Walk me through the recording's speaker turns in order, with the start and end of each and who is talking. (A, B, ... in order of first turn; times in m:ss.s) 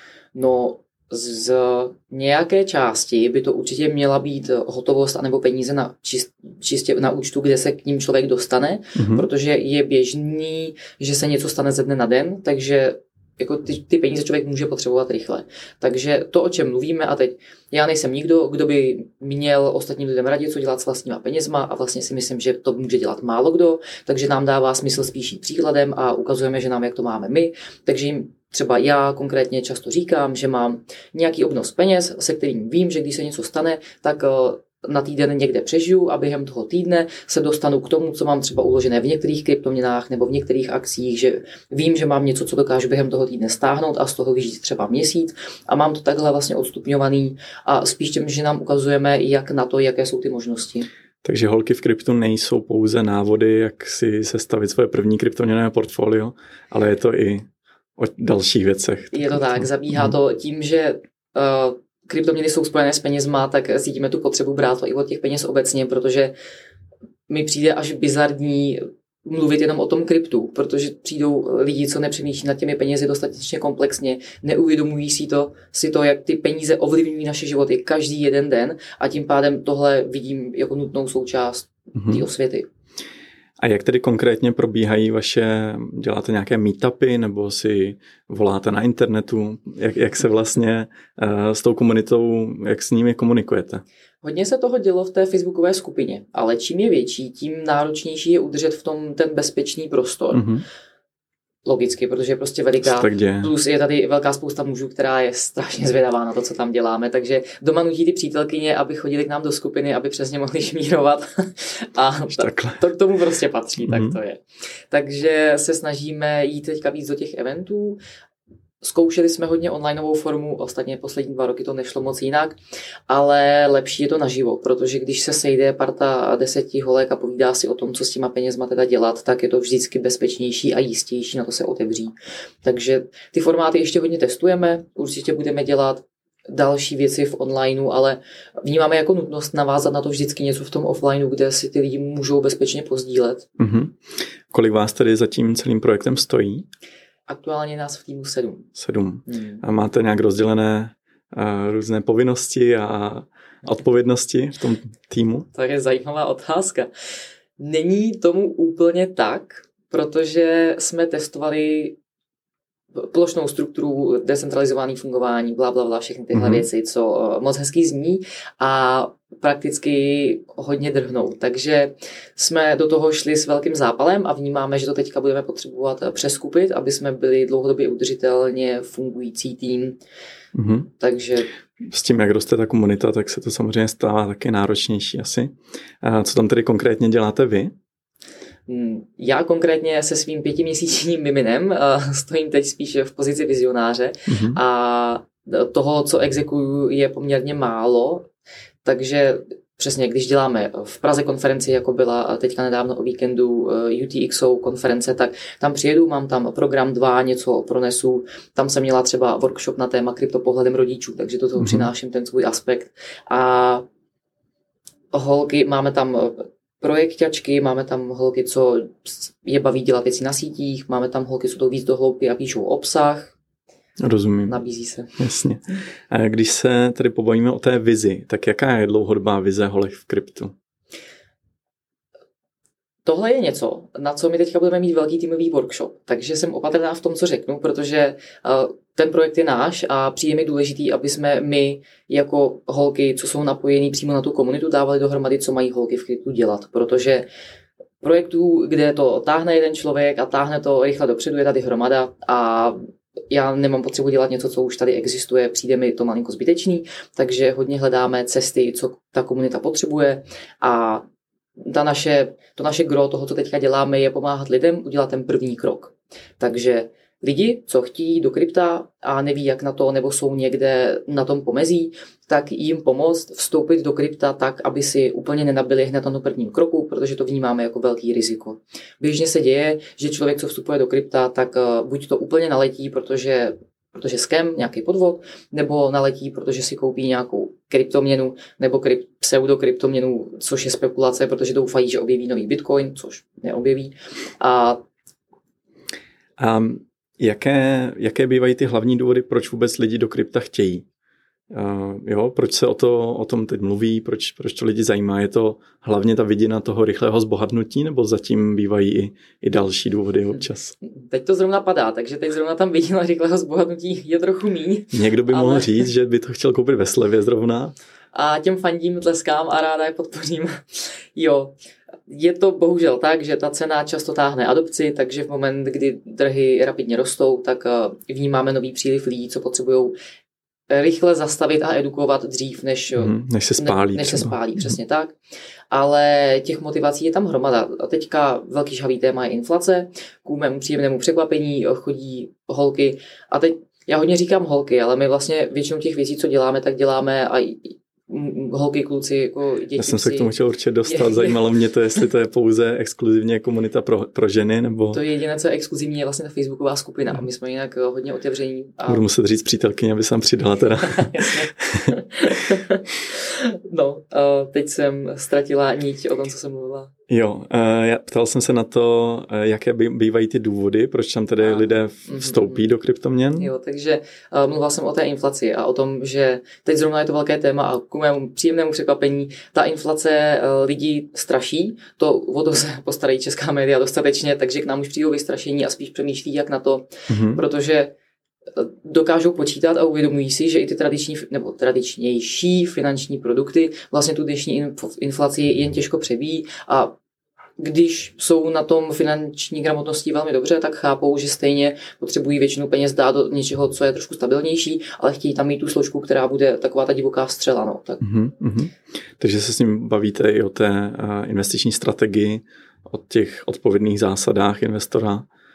0:00.4-0:50.9 A
0:09.0-0:09.3 B
0:51.2-0:57.5 B
0:58.0-1:00.2 B
0:59.1-1:06.3 A
1:07.3-1:22.7 A
1:22.0-1:22.2 B
1:23.6-1:33.8 B
1:34.2-1:40.5 A
1:40.3-1:40.6 B
1:41.7-1:58.0 A
1:42.8-1:43.5 B
1:52.3-1:52.8 B
1:53.8-1:54.2 B
1:58.8-2:02.6 A
2:03.1-2:23.5 A
2:23.6-2:24.0 B
2:24.5-2:26.7 B
2:27.3-2:28.7 A
2:28.8-2:35.5 B
2:29.3-2:29.6 A
2:35.5-2:36.9 A
2:37.6-2:42.0 A
2:43.0-3:00.0 A
2:46.3-2:46.7 B
3:00.6-3:00.9 B
3:01.0-3:01.5 A
3:01.9-3:07.7 B
3:08.7-3:18.3 A
3:14.3-3:14.6 B
3:18.8-3:33.8 A
3:31.6-3:31.9 B
3:35.1-3:43.3 A
3:44.0-3:44.6 B
3:44.5-3:45.2 A
3:45.2-3:50.6 B
3:53.0-4:07.3 A
4:08.0-4:21.0 A
4:21.6-4:54.8 A
4:56.4-5:00.9 B
5:01.5-5:10.7 B
5:10.8-5:15.9 A
5:14.9-5:17.8 B
5:18.1-5:21.6 A
5:22.1-5:30.0 A
5:30.7-5:35.2 A
5:33.0-5:34.7 B
5:35.7-5:51.4 A
5:49.8-5:55.0 B
5:54.9-5:59.0 A
5:58.9-6:02.0 B
6:00.8-6:06.9 A
6:07.1-6:13.5 B
6:11.4-6:12.6 A
6:13.4-6:27.9 A
6:27.1-6:27.4 B
6:28.6-6:37.0 A
6:37.6-6:48.0 A
6:48.0-6:55.3 B